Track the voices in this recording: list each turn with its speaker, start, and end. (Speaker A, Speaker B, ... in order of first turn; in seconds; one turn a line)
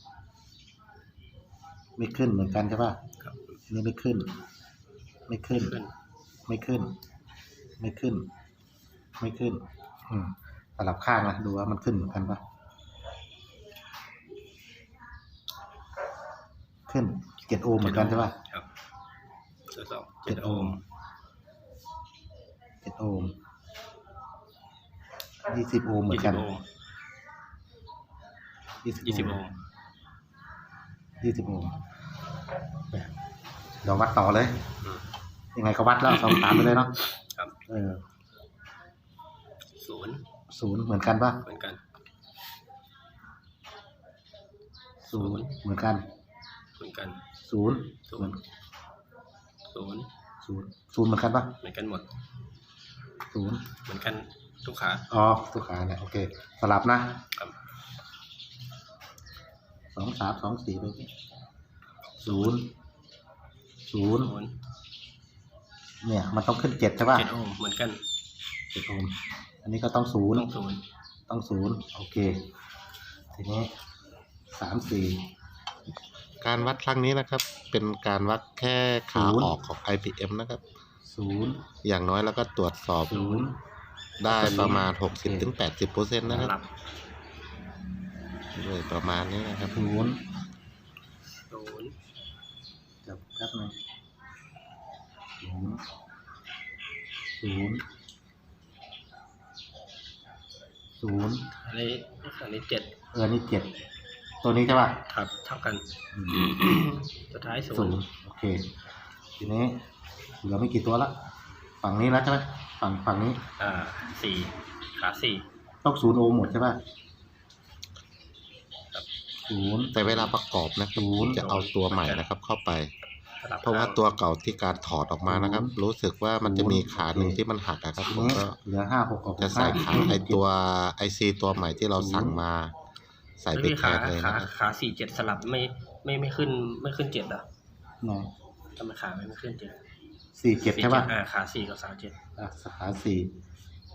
Speaker A: 2.0-3.0
Speaker B: 3.2-3.6
Speaker A: 3.7-4.3
Speaker A: 5.3-5.8
Speaker B: 5.5-5.9
Speaker A: 6.5-6.9
Speaker A: 7.8-8.3
Speaker A: 9.2-12.4
Speaker A: 16.9-18.4
Speaker B: 17.8-18.7
Speaker B: 19.7-20.8
Speaker A: 20.3-20.8
Speaker A: 22.8-23.4
Speaker A: 25.4-26.5
Speaker B: 26.1-26.6
Speaker A: 28.8-29.5
Speaker B: 29.0-29.5
Speaker A: 31.2-31.8
Speaker A: 33.8-34.6
Speaker A: 35.5-37.0
Speaker B: 36.1-37.5
Speaker A: 37.7-38.0
Speaker B: 39.8-40.2
Speaker A: 40.5-41.4
Speaker B: 41.5-41.8
Speaker B: 45.0-45.5
Speaker A: 45.1-46.0
Speaker B: 46.8-47.2
Speaker A: 47.5-48.4
Speaker B: 48.1-48.4
Speaker B: 49.7-50.1
Speaker A: 50.4-51.6
Speaker B: 51.6-52.1
Speaker A: 53.3-53.7
Speaker B: 53.9-55.1
Speaker A: 55.1-57.2
Speaker A: 60.0-61.1
Speaker A: 62.2-62.7
Speaker A: 63.9-64.3
Speaker B: 64.1-64.6
Speaker A: 66.0-67.3
Speaker B: 67.1-68.0
Speaker A: 68.7-70.5
Speaker B: 70.3-70.8
Speaker A: 71.3-72.5
Speaker A: 73.3-73.7
Speaker A: 74.5-75.3
Speaker C: 76.4-80.6
Speaker A: 79.1-79.5
Speaker A: 81.1-81.6
Speaker C: 81.8-83.4
Speaker A: 83.1-83.6
Speaker C: 84.2-86.5
Speaker A: 84.2-85.5
Speaker B: 86.3-86.7
Speaker C: 88.5-89.8
Speaker A: 89.7-90.2
Speaker B: 91.5-92.0
Speaker A: 93.0-93.8
Speaker A: 95.4-95.8
Speaker A: 97.4-97.8
Speaker A: 101.0-101.5
Speaker B: 101.6-102.9
Speaker A: 103.1-103.7
Speaker A: 104.4-105.0
Speaker B: 105.1-108.0
Speaker A: 106.1-106.6
Speaker A: 107.7-108.7
Speaker A: 109.4-109.8
Speaker A: 110.4-111.2
Speaker A: 111.8-113.4
Speaker B: 113.6-115.5
Speaker A: 115.8-116.8
Speaker A: 119.5-120.1
Speaker C: 120.0-122.9
Speaker A: 121.0-121.5
Speaker B: 121.4-122.2
Speaker B: 123.4-124.0
Speaker C: 123.6-128.6
Speaker A: 125.3-125.8
Speaker A: 126.4-127.4
Speaker A: 128.1-130.4
Speaker C: 129.4-132.7
Speaker A: 131.9-132.4
Speaker C: 133.4-134.5
Speaker B: 133.5-137.5
Speaker A: 138.0-138.3
Speaker B: 138.8-139.8
Speaker A: 140.4-141.1
Speaker B: 140.6-142.2
Speaker A: 142.4-143.3